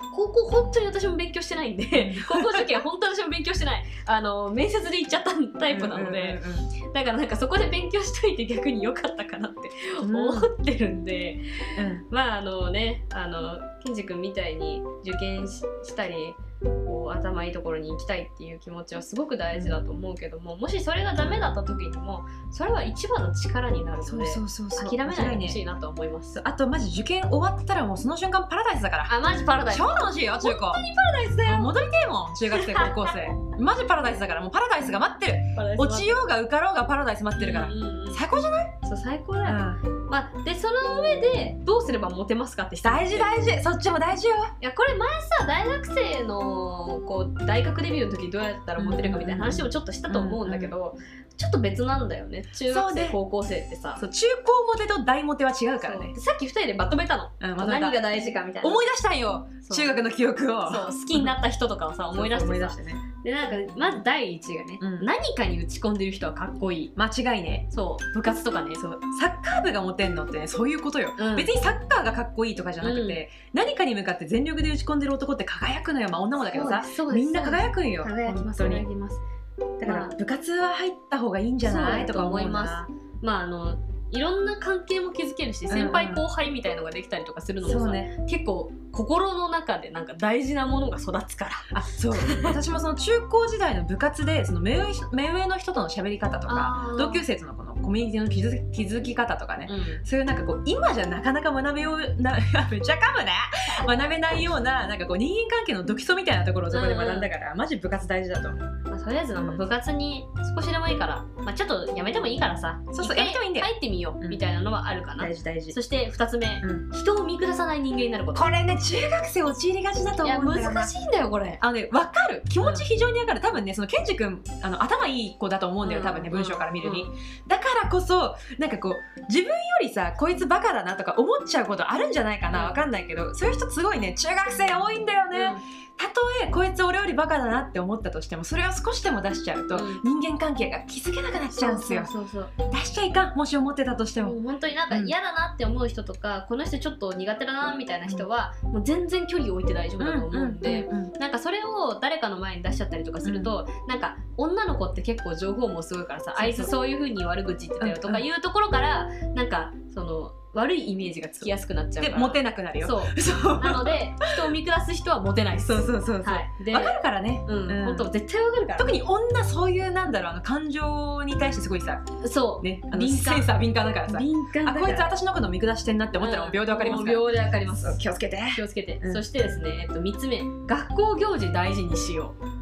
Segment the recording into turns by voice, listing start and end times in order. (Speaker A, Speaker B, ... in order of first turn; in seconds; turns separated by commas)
Speaker A: 0.1-26.4, Speaker B: 1.9-2.8, Speaker B: 5.7-6.7, Speaker B: 10.0-10.5, Speaker B: 11.8-12.1, Speaker B: 21.2-21.6, Speaker B: 24.1-25.6, Speaker B: 26.4-29.1, Speaker A: 29.1-31.9, Speaker B: 29.7-30.8, Speaker B: 31.4-38.8, Speaker A: 32.5-33.3, Speaker A: 35.6-36.2, Speaker A: 37.4-38.2, Speaker A: 38.8-43.4, Speaker B: 39.5-39.8, Speaker B: 42.8-44.5, Speaker A: 44.6-54.0, Speaker B: 48.8-50.8, Speaker B: 52.7-53.2, Speaker B: 54.0-56.1, Speaker A: 55.8-58.8, Speaker B: 57.4-58.0, Speaker B: 58.6-61.4, Speaker A: 59.7-60.0, Speaker A: 60.7-66.9, Speaker B: 62.1-63.0, Speaker B: 64.8-65.1, Speaker B: 67.0-67.7, Speaker A: 67.7-68.9, Speaker B: 68.8-78.8, Speaker A: 71.2-71.5, Speaker A: 72.8-73.2, Speaker A: 76.5-79.2, Speaker B: 79.8-82.9, Speaker A: 79.8-80.1, Speaker A: 81.6-92.6, Speaker B: 85.7-86.2, Speaker B: 87.6-88.1, Speaker B: 91.7-108.7, Speaker A: 96.5-97.2, Speaker A: 99.7-100.0, Speaker A: 103.7-104.4, Speaker A: 106.7-107.3, Speaker A: 108.9-118.5, Speaker B: 109.3-109.7, Speaker B: 112.9-114.4, Speaker B: 115.2-115.8, Speaker B: 118.3-120.9, Speaker A: 120.2-121.6, Speaker B: 121.6-142.1, Speaker A: 122.6-122.9, Speaker A: 125.8-127.1, Speaker A: 132.5-132.8, Speaker A: 135.3-135.6, Speaker A: 139.7-140.0, Speaker A: 141.5-142.5, Speaker B: 142.7-144.4, Speaker A: 144.2-169.0, Speaker B: 150.0-151.1, Speaker B: 153.2-153.5, Speaker B: 156.4-156.7, Speaker B: 157.8-158.2, Speaker B: 162.0-164.1, Speaker B: 165.6-168.1, Speaker B: 168.8-172.0, Speaker A: 172.2-173.5, Speaker B: 172.6-179.2, Speaker A: 174.1-175.1, Speaker A: 176.2-178.0, Speaker A: 178.5-182.4